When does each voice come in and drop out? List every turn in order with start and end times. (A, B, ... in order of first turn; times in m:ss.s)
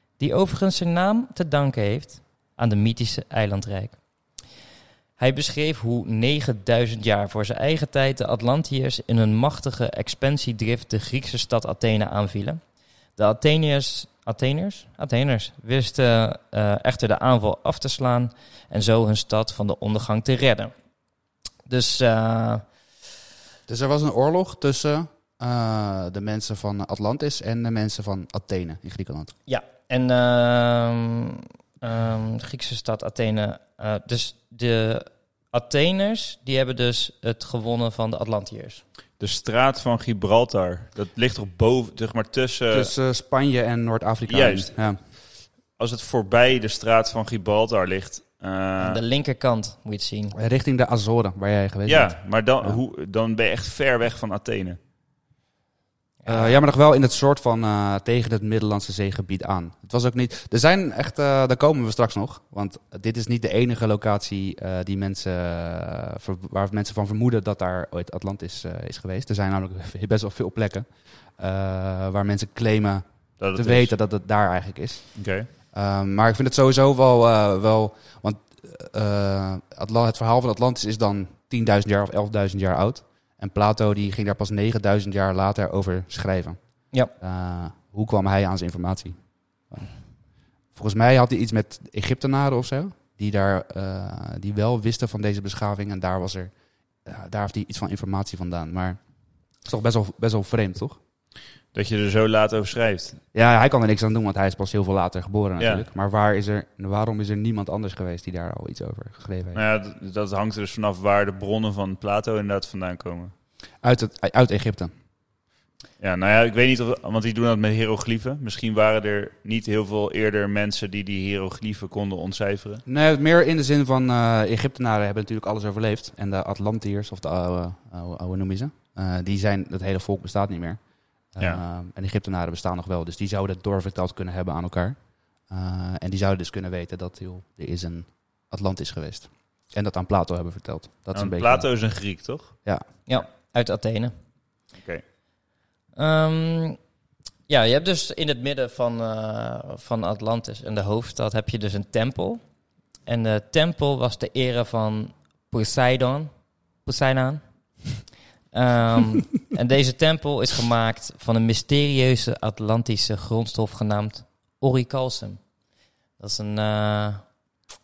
0:00.2-0:04.0 A
0:05.2-0:12.6 A
0:13.2-0:20.7 A
0:21.7-0:22.6 A
0:23.7-0:29.3 B
0:29.5-0:38.8 A
0:39.2-0:42.9 C
0:42.7-0:45.0 B
0:44.3-0:44.8 C
0:45.8-0:49.0 C
0:48.8-0:50.3 A
0:50.3-0:52.8 B
0:51.9-0:54.8 C
0:56.2-0:56.6 A
0:56.2-1:13.0 B
1:13.4-1:13.9 C
1:13.5-1:15.2 B
1:15.2-1:15.5 C
1:15.7-1:26.6 B
1:27.2-1:29.1 B
1:30.7-1:36.5 B
1:37.0-1:39.0 B
1:39.6-1:41.0 B
1:41.7-1:43.2 C
1:43.3-1:49.6 B
1:49.5-1:53.3 C
1:53.8-1:54.9 B
1:56.0-2:02.8 C
2:02.8-2:10.8 B
2:11.3-2:15.0 B
2:15.5-2:21.7 B
2:21.1-2:22.5 C
2:23.1-2:24.1 A
2:26.0-2:26.8 A
2:27.5-2:32.4 A
2:33.0-2:36.3 A
2:36.8-2:37.4 A
2:38.5-2:45.4 A
2:46.2-2:47.2 A